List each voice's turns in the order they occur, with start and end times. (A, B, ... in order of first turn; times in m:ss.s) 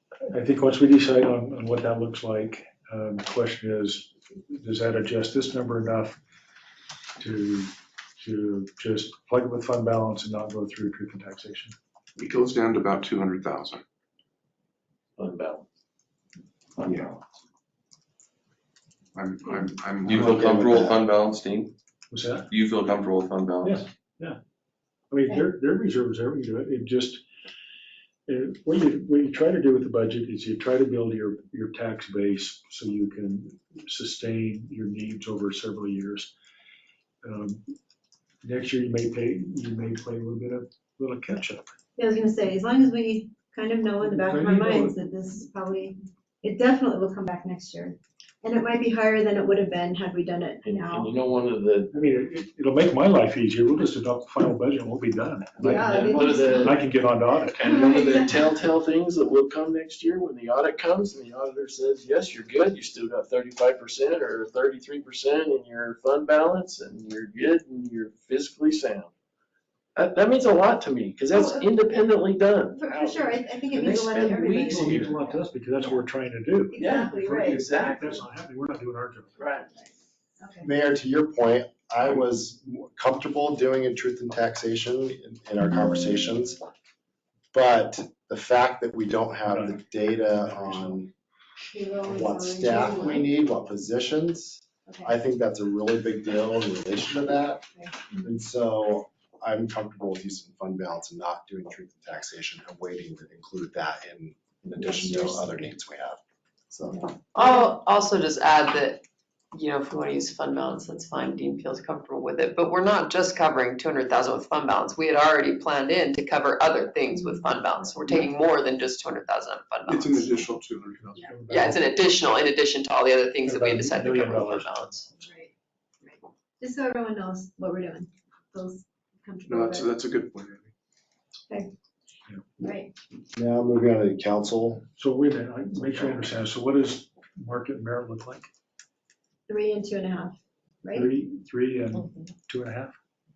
0:00.3-0:06.2 A
0:07.2-0:11.8 A
0:12.2-0:13.8 B
0:15.2-0:15.6 C
0:16.8-0:17.2 B
0:19.2-0:20.7 B
0:20.0-0:21.7 D
0:20.1-0:21.0 E
0:22.1-0:22.5 A
0:22.5-0:23.9 D
0:23.6-0:24.4 A
0:25.1-0:27.2 A
0:28.3-0:36.3 A
0:37.2-0:37.6 A
0:38.4-0:41.7 A
0:42.0-0:51.1 F
0:44.0-0:45.0 A
0:50.6-0:51.9 C
0:51.9-0:57.7 A
0:55.6-0:56.9 C
0:55.6-0:56.8 F
0:57.6-1:09.1 C
0:57.6-0:58.5 F
1:10.0-1:15.2 C
1:11.3-1:11.8 F
1:12.8-1:16.0 F
1:14.7-1:19.4 A
1:16.7-1:17.7 F
1:16.7-1:18.3 C
1:19.4-1:19.7 C
1:19.8-1:20.7 F
1:20.6-1:26.6 E
1:27.5-1:31.1 E
1:29.5-1:31.0 A
1:31.7-1:33.3 F
1:32.0-1:37.7 E
1:34.9-1:35.1 F
1:37.7-1:38.3 F
1:38.2-1:47.1 E
1:44.8-1:45.5 F
1:47.3-2:00.4 G
1:47.4-1:47.8 F
1:57.1-1:58.2 F
1:59.9-2:01.3 B
2:01.0-2:02.3 A
2:01.5-2:05.1 G
2:03.4-2:05.0 A
2:05.2-2:10.0 F
2:09.5-2:10.7 B
2:12.6-2:12.9 F
2:13.3-2:14.8 E
2:15.0-2:18.5 A
2:19.5-2:21.2 F
2:20.9-2:23.0 A